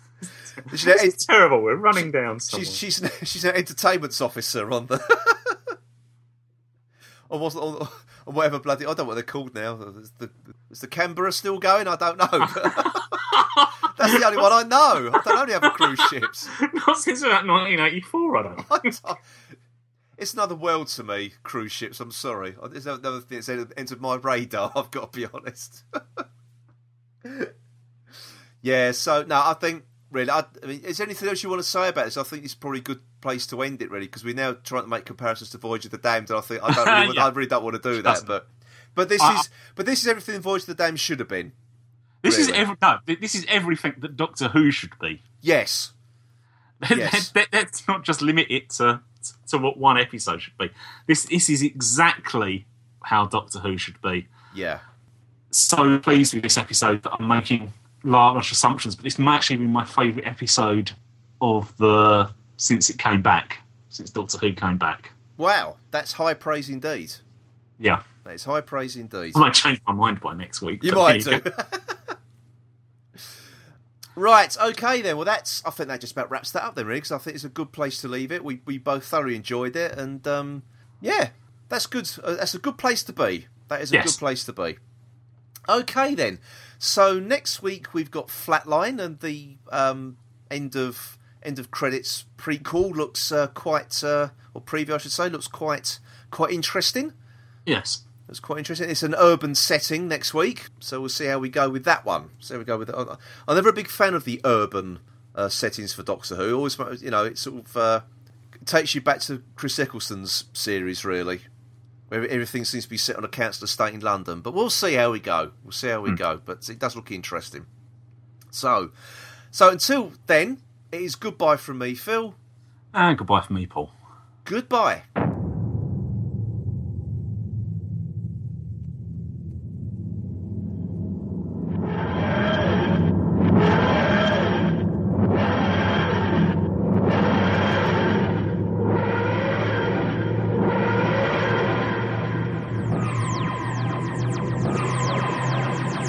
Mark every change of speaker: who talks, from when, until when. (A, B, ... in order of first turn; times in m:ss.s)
0:00.5-0:02.8 A
0:00.7-0:01.2 B
0:02.0-0:05.7 B
0:07.3-0:13.2 B
0:12.9-0:14.5 A
0:13.9-0:16.5 B
0:15.2-0:18.9 A
0:18.6-0:19.2 B
0:20.2-0:26.2 B
0:27.2-0:27.5 B
0:28.6-0:41.5 B
0:36.7-0:37.3 A
0:38.0-0:38.3 A
0:39.2-0:39.5 A
0:42.2-0:45.2 A
0:42.2-0:42.6 B
0:45.4-0:45.9 B
0:46.8-0:54.3 A
0:46.9-0:47.3 B
0:54.5-0:54.8 B
0:55.5-1:05.1 A
1:05.4-1:07.2 B
1:08.2-1:09.4 B
1:09.3-1:11.4 A
1:10.8-1:12.0 B
1:14.2-1:24.8 B
1:23.9-1:24.2 A
1:25.7-1:37.1 B
1:37.7-1:38.0 A
1:38.3-1:48.0 B
1:48.6-1:51.5 B
1:52.1-1:57.7 B
1:58.5-1:58.9 B
1:59.5-2:02.4 B
2:02.9-2:03.9 A
2:04.4-2:05.1 B